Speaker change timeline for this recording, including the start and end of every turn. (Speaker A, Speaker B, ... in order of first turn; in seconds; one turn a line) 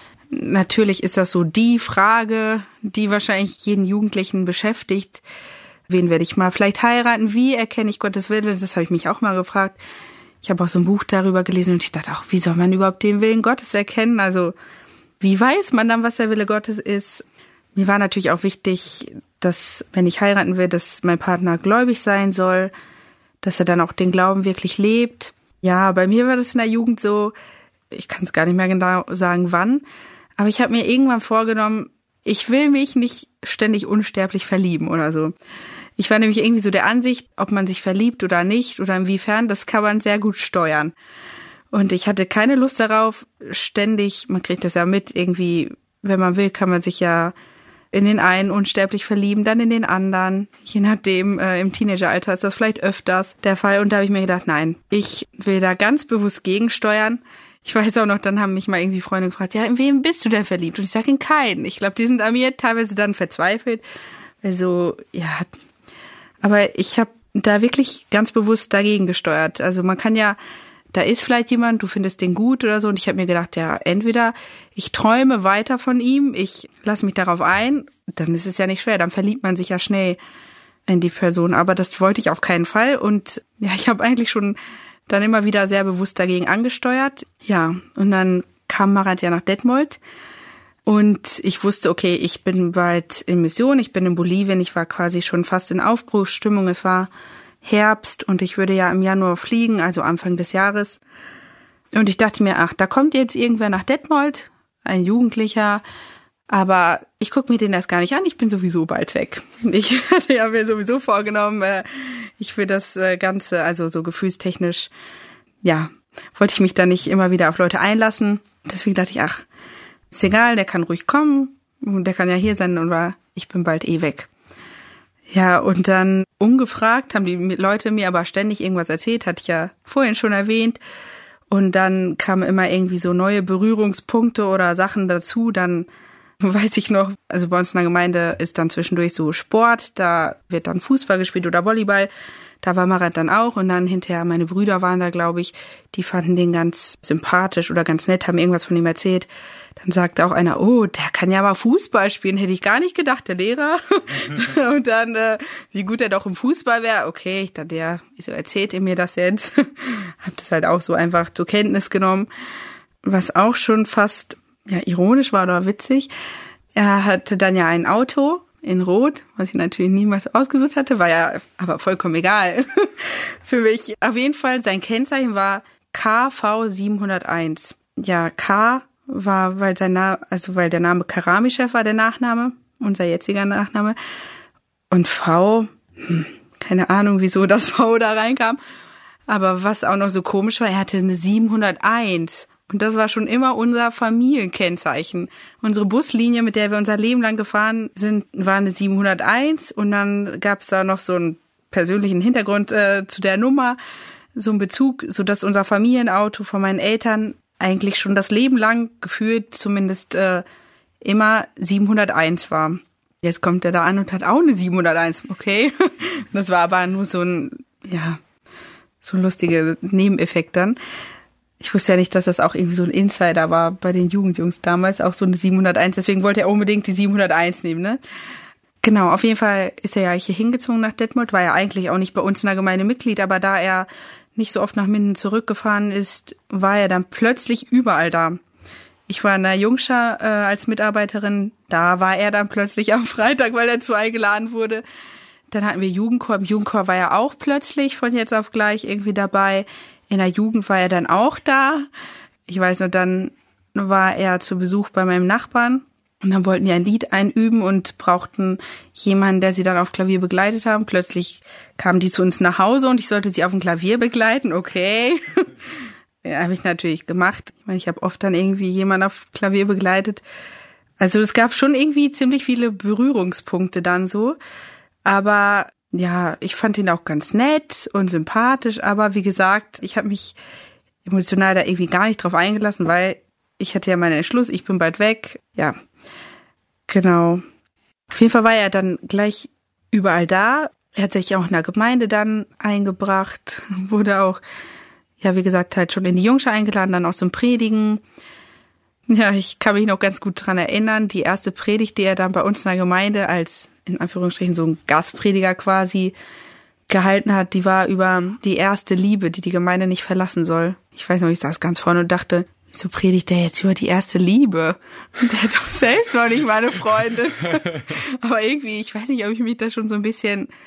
Speaker A: 0.3-5.2
Speaker A: 5.9-9.8
Speaker A: 10.4-14.5
Speaker A: 15.2-22.7
Speaker A: 23.4-27.3
Speaker A: 27.9-29.8
Speaker A: 30.4-35.3
Speaker A: 36.0-40.9
Speaker A: 41.7-47.3
Speaker A: 47.9-63.8
Speaker A: 64.4-65.5
Speaker A: 66.4-70.4
Speaker A: 70.9-80.2
Speaker A: 80.9-84.6
Speaker A: 85.1-90.0
Speaker A: 90.9-97.1
Speaker A: 97.6-101.0
Speaker A: 101.9-105.8
Speaker A: 106.5-114.9
Speaker A: 115.6-119.5
Speaker A: 120.1-124.3
Speaker A: 125.3-130.8
Speaker A: 131.5-135.9
Speaker A: 136.4-142.1
Speaker A: 142.6-149.3
Speaker A: 149.8-162.3
Speaker A: 163.0-166.1
Speaker A: 166.8-184.0
Speaker A: 184.9-188.6
Speaker A: 189.3-203.8
Speaker A: 204.4-210.4
Speaker A: 211.0-218.2
Speaker A: 219.0-220.8
Speaker A: 221.6-228.0
Speaker A: 228.8-238.4
Speaker A: 239.1-244.8
Speaker A: 245.5-251.9
Speaker A: 252.5-270.2
Speaker A: 271.0-274.4
Speaker A: 275.1-280.4
Speaker A: 281.1-285.8
Speaker A: 286.9-287.4
Speaker A: 288.1-294.4
Speaker A: 295.2-298.0
Speaker A: 299.1-306.1
Speaker A: 306.9-320.5